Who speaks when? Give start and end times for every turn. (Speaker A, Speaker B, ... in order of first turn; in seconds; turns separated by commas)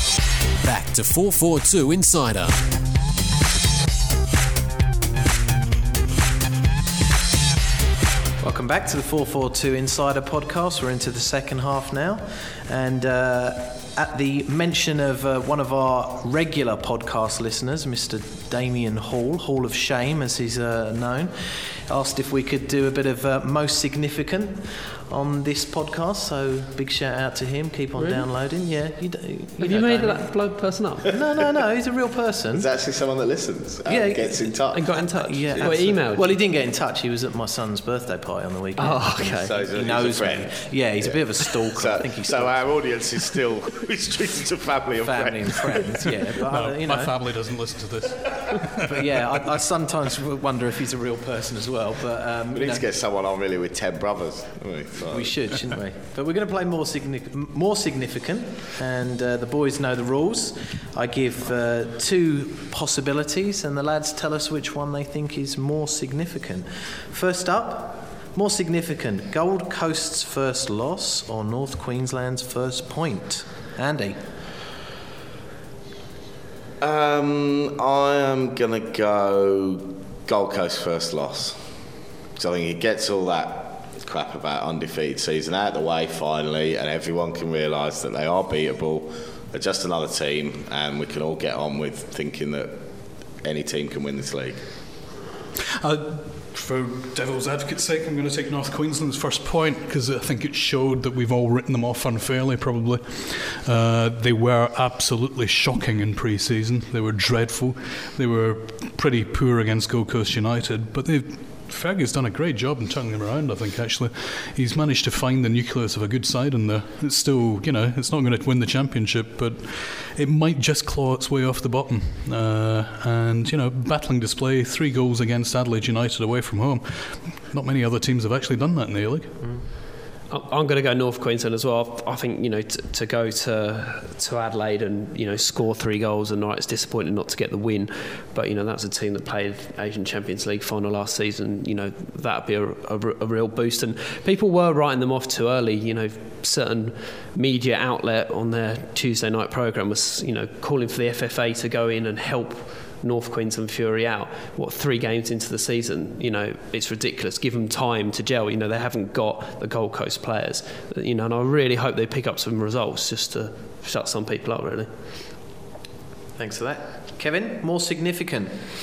Speaker A: 0.6-2.6, Speaker B: 8.4-30.3, Speaker C: 27.9-28.3, Speaker C: 29.6-31.1, Speaker B: 31.0-32.7, Speaker D: 32.5-36.1, Speaker B: 33.9-42.6, Speaker C: 34.7-36.3, Speaker C: 38.8-39.8, Speaker D: 39.2-46.0, Speaker B: 45.0-47.2, Speaker E: 46.4-49.3, Speaker B: 48.8-52.8, Speaker D: 52.5-55.4, Speaker B: 55.1-74.2, Speaker D: 76.8-81.6, Speaker D: 82.3-92.8, Speaker D: 93.4-94.6, Speaker E: 95.8-129.4, Speaker C: 130.3-164.9, Speaker B: 166.3-168.6